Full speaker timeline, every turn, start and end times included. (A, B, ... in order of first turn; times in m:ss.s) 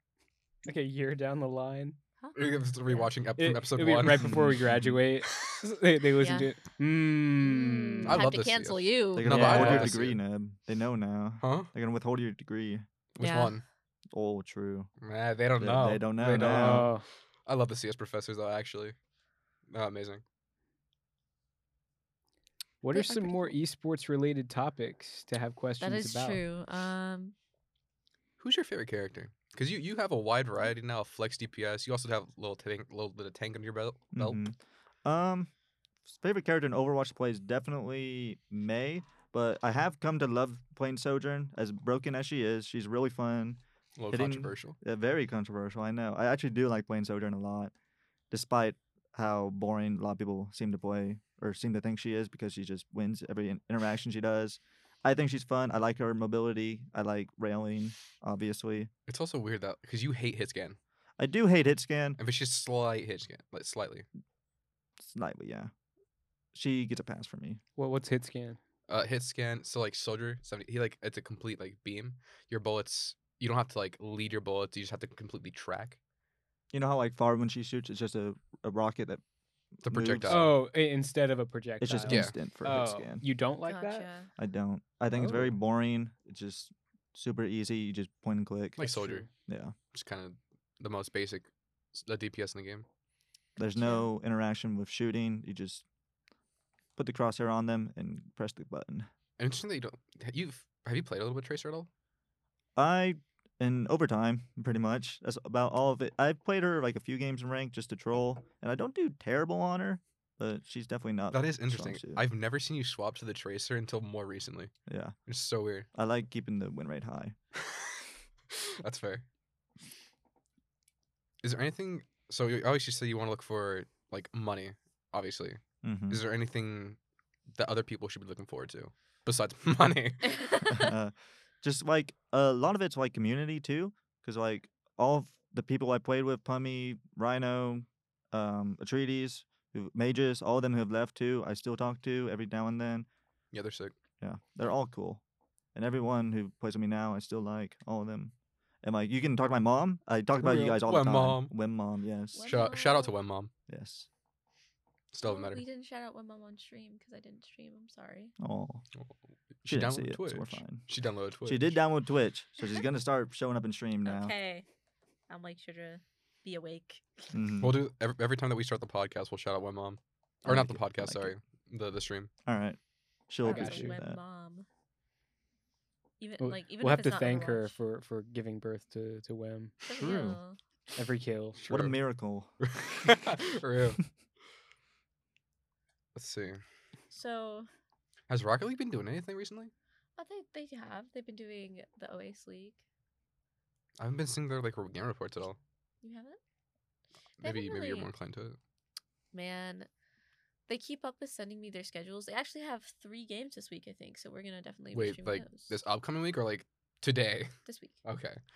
0:00.7-0:02.0 A
0:02.4-0:04.5 B
0:03.4-0:08.2 A
0:04.2-0:05.0 C
0:06.2-0:06.5 D
0:07.4-0:09.6 D
0:08.0-0:10.2 B
0:09.1-0:12.9 C
0:09.3-0:10.0 A
0:11.4-0:11.7 B
0:13.2-0:13.6 B
0:13.2-0:13.6 D
0:14.1-0:14.9 C
0:15.0-0:19.0 B
0:15.6-0:16.9 C
0:16.3-0:17.0 A
0:19.7-0:20.2 B
0:22.8-0:26.4 A
0:22.9-0:23.6 D
0:25.8-0:27.3 D
0:28.4-0:34.4 B
0:34.1-0:35.5 C
0:36.1-0:47.7 C
0:44.0-0:44.8 B
0:48.3-0:58.9 C
0:59.1-1:00.8 B
1:01.2-1:02.2 C
1:02.2-1:04.1 B
1:05.0-1:05.7 C
1:06.5-1:07.6 C
1:07.8-1:08.6 A
1:08.9-1:16.0 B
1:16.7-1:19.2 C
1:19.8-1:20.5 C
1:19.8-1:20.6 B
1:20.3-1:24.1 A
1:21.8-1:23.2 C
1:22.1-1:22.4 B
1:23.6-1:24.3 D
1:24.4-1:28.8 C
1:25.1-1:25.6 A
1:28.8-1:29.3 B
1:28.8-1:29.3 A
1:29.4-1:29.7 C
1:29.9-1:32.9 B
1:33.6-1:34.1 D
1:33.6-1:35.8 C
1:37.0-1:39.1 C
1:39.4-1:41.9 B
1:42.8-1:52.2 C
1:51.3-1:54.7 B
1:54.9-1:55.2 C
1:55.3-1:55.9 B
1:55.9-1:57.4 C
1:57.6-1:59.3 B
2:01.4-2:07.0 B
2:05.8-2:06.2 C
2:07.6-2:10.4 B
2:10.4-2:10.9 D
2:10.6-2:23.1 C
2:23.5-2:24.0 B
2:24.2-2:25.2 C
2:25.8-2:32.5 C
2:30.4-2:30.8 A
2:30.8-2:31.5 B
2:32.3-2:33.1 D
2:32.4-2:33.5 B
2:33.7-2:34.1 C
2:35.1-2:35.6 B
2:35.2-2:38.3 D
2:38.4-2:38.8 C
2:39.0-2:41.8 B
2:39.7-2:40.9 C
2:41.4-2:44.3 C
2:44.0-2:44.6 D
2:45.3-2:47.3 D
2:47.3-2:47.8 C
2:47.6-2:52.3 B
2:50.4-2:51.3 C
2:52.4-2:54.2 C
2:53.4-2:54.7 D
2:53.4-2:53.9 A
2:56.2-2:57.7 D
2:56.4-2:59.8 A
2:59.8-3:00.6 D
3:00.0-3:00.4 C
3:01.0-3:01.6 A
3:01.6-3:02.0 B
3:01.6-3:02.5 C
3:02.6-3:04.0 B
3:06.2-3:06.6 B
3:07.1-3:07.7 D
3:08.3-3:09.7 B
3:10.2-3:12.8 D
3:14.0-3:15.6 B
3:16.0-3:16.4 D
3:17.4-3:18.6 B
3:17.4-3:18.1 D
3:19.3-3:19.9 D
3:20.7-3:25.7 D
3:24.9-3:27.5 B
3:27.7-3:28.0 D
3:28.0-3:28.4 B